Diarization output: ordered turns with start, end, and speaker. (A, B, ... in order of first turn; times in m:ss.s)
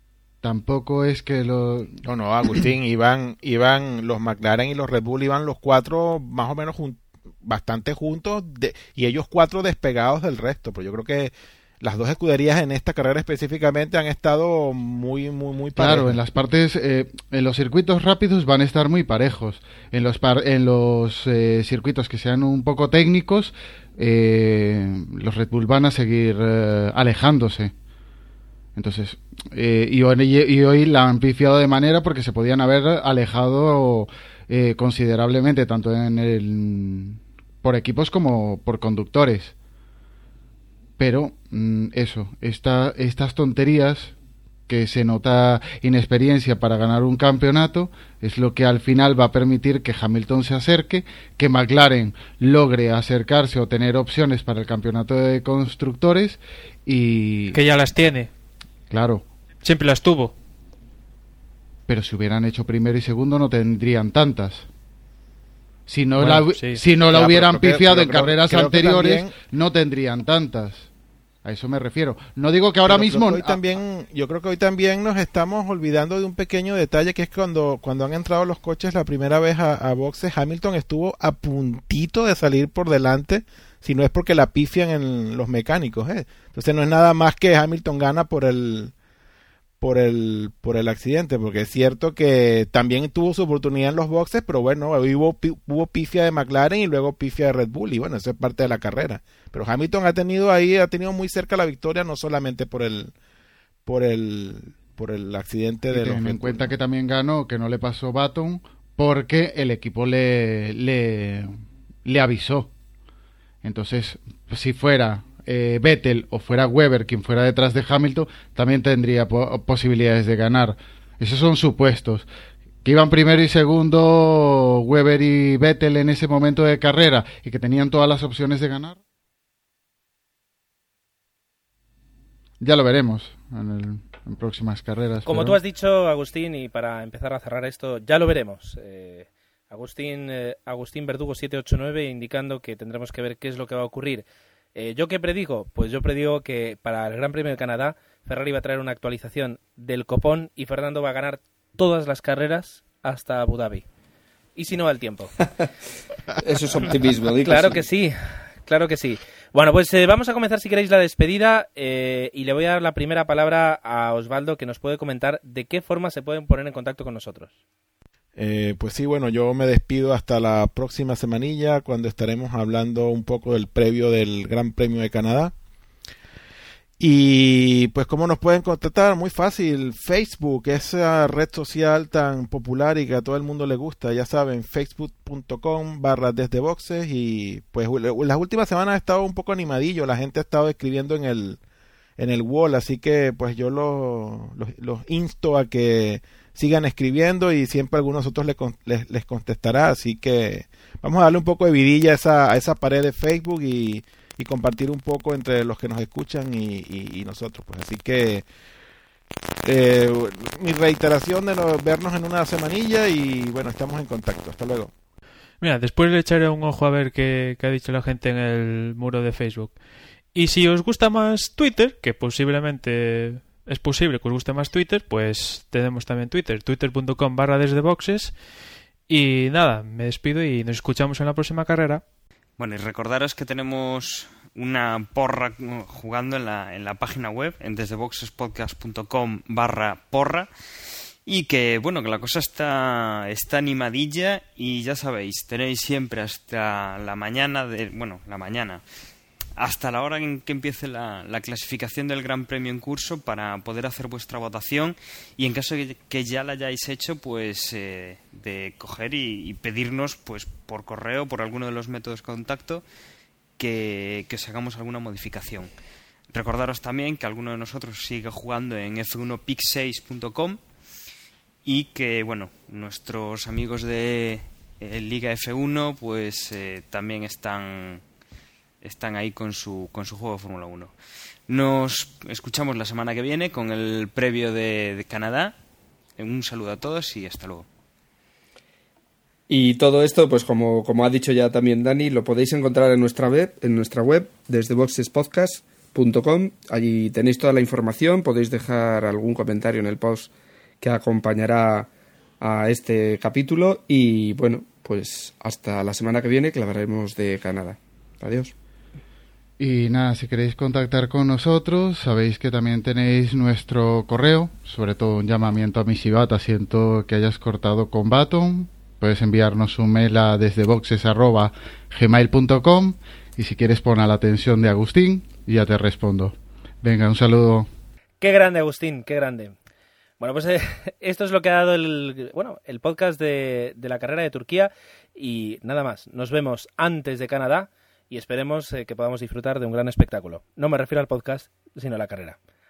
0:00.4-0:02.0 A
0:02.0-0:16.2 B
0:15.8-0:27.7 A
0:28.8-0:39.5 A
0:41.0-0:44.1 A
0:44.7-0:57.6 A
0:57.5-0:58.3 C
0:58.9-0:59.2 A
0:59.6-1:00.3 C
1:01.9-1:04.7 A
1:05.9-1:10.9 A
1:06.2-1:06.8 C
1:07.0-1:09.4 B
1:11.4-1:13.6 A
1:12.8-1:28.9 B
1:29.8-1:43.1 B
1:43.9-1:46.7 B
1:45.9-1:52.7 A
1:53.6-2:02.3 A
2:02.8-2:09.0 A
2:12.6-2:15.6 A
2:15.2-2:33.8 D
2:34.6-2:35.4 D
2:36.4-2:37.9 E
2:37.4-2:47.5 D
2:48.4-2:55.5 B
2:57.0-3:11.6 B
3:12.2-3:28.4 B
3:29.6-3:34.9 B
3:35.6-3:39.8 C
3:40.3-3:48.4 C
3:49.1-3:52.0 C
3:52.6-4:00.5 F
4:01.3-4:08.8 F
4:09.6-4:22.8 F
4:23.6-4:25.7 F
4:26.3-4:30.6 F
4:31.6-4:38.0 F
4:38.8-4:40.9 F
4:41.5-4:45.6 F
4:46.2-4:47.7 F
4:49.5-5:00.3 E
5:00.8-5:01.9 E
5:02.4-5:08.5 E
5:09.6-5:27.7 A
5:28.2-5:29.6 D
5:30.2-5:42.4 D